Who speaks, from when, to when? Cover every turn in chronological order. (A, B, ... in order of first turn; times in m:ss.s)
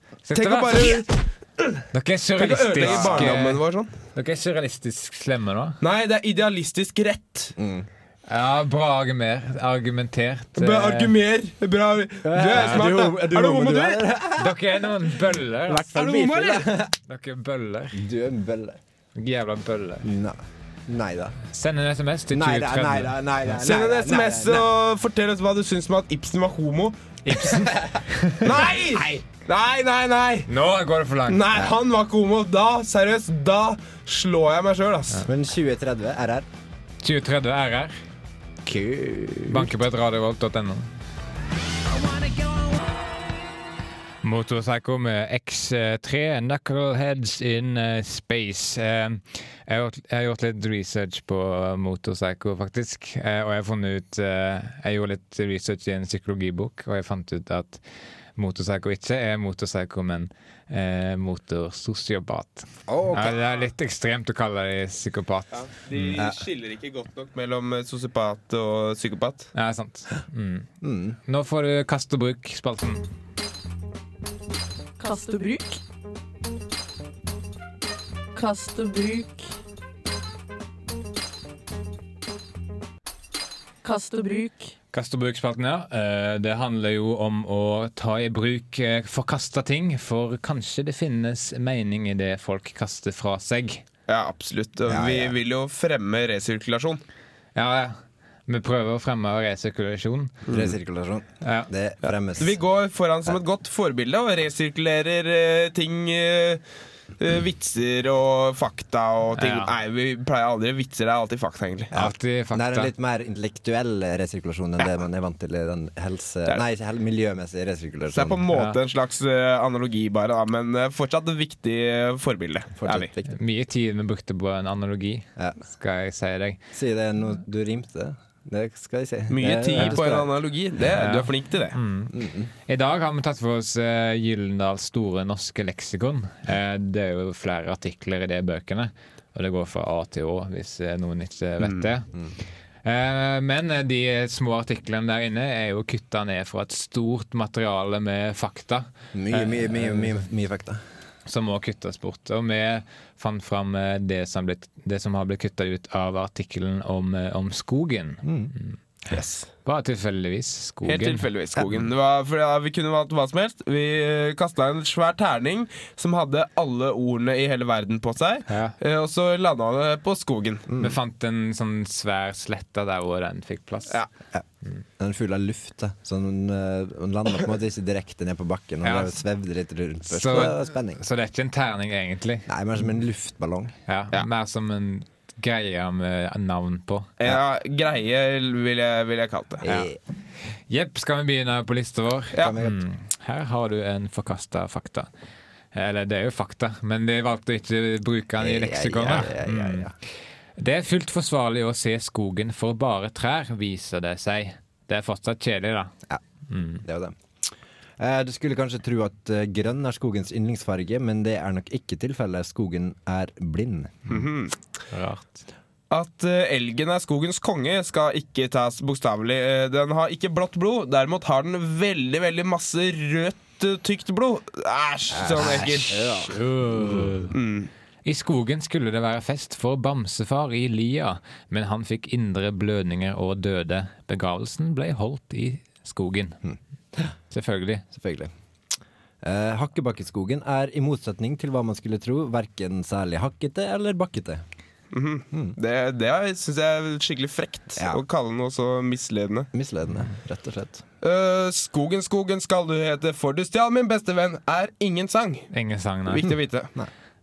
0:00.3-0:01.1 A
0:00.3-0:01.1 B
0:01.9-0:03.6 A
0:02.4-0:03.9 B
0:02.8-0:03.4 C
0:04.2-0:05.8 A
0:05.8-0:07.5 B
0:07.6-0:07.9 C
0:08.3-0:11.1 A
0:10.6-0:14.1 B
0:12.2-0:14.8 C
0:12.6-0:12.9 A
0:14.4-0:15.9 A
0:15.7-0:16.9 C
0:15.9-0:16.8 B
0:17.1-0:18.0 A
0:17.9-0:18.8 C
0:19.2-0:20.1 A
0:20.0-0:21.4 C
0:21.5-0:23.6 A
0:22.3-0:24.7 C
0:23.6-0:27.5 B
0:27.2-0:28.5 A
0:27.7-0:29.2 C
0:28.4-0:30.5 B
0:30.5-0:31.4 A
0:31.3-0:35.3 B
0:35.3-0:36.5 C
0:37.0-0:38.0 A
0:38.6-0:39.7 C
0:39.5-0:40.9 A
0:44.2-0:57.8 A
0:58.4-1:06.2 A
1:02.9-1:03.4 C
1:05.5-1:09.5 B
1:06.2-1:06.4 C
1:09.6-1:10.7 A
1:10.8-1:11.2 C
1:11.3-1:13.0 A
1:15.0-1:15.8 D
1:18.3-1:19.5 D
1:23.8-1:24.7 D
1:24.9-1:33.8 A
1:34.1-1:37.0 B
1:34.9-1:35.4 C
1:37.6-1:38.0 A
1:38.5-1:40.4 A
1:40.5-1:40.7 B
1:40.5-1:42.6 C
1:41.4-1:41.7 A
1:42.4-1:46.6 B
1:47.2-1:51.9 B
1:49.4-1:49.7 A
1:51.9-1:58.4 C
1:51.9-1:52.9 A
1:58.1-2:03.1 B
1:58.5-1:58.8 A
2:02.8-2:03.3 C
2:03.3-2:06.6 A
2:06.7-2:10.3 C
2:09.3-2:11.8 B
2:11.0-2:12.2 A
2:12.1-2:12.5 C
2:12.7-2:22.1 A
2:21.6-2:21.9 B
2:22.8-2:30.2 A
2:29.1-2:30.8 C
2:31.3-2:38.8 A
2:38.2-2:38.5 C
2:39.1-2:39.4 C
2:39.6-2:41.3 A
2:40.9-2:50.7 B
2:48.5-2:48.8 A
2:50.7-2:51.0 C
2:50.8-2:54.0 A
2:55.0-3:01.0 C
2:58.8-2:59.1 A
3:00.1-3:02.5 A
3:02.5-3:03.8 C
3:03.9-3:07.1 A
3:07.2-3:09.7 B
3:09.6-3:10.0 C
3:10.7-3:15.1 A
3:12.4-3:12.8 C
3:15.7-3:19.9 A
3:18.4-3:19.9 C
3:20.6-3:25.9 A
3:26.5-3:26.8 A
3:26.8-3:27.2 C
3:28.0-3:34.2 C
3:34.1-3:34.6 B
3:34.9-3:35.4 A
3:35.9-3:46.2 B
3:45.1-3:47.1 C
3:46.3-3:47.4 A
3:47.3-3:47.7 B
3:48.0-3:56.4 A
3:56.4-3:57.1 C
3:57.3-3:57.8 A
3:57.9-3:58.3 C
3:59.2-4:04.4 C
4:04.9-4:09.5 B
4:07.8-4:08.0 C
4:09.5-4:10.8 C
4:11.0-4:15.5 B
4:15.5-4:16.3 A
4:16.1-4:16.7 B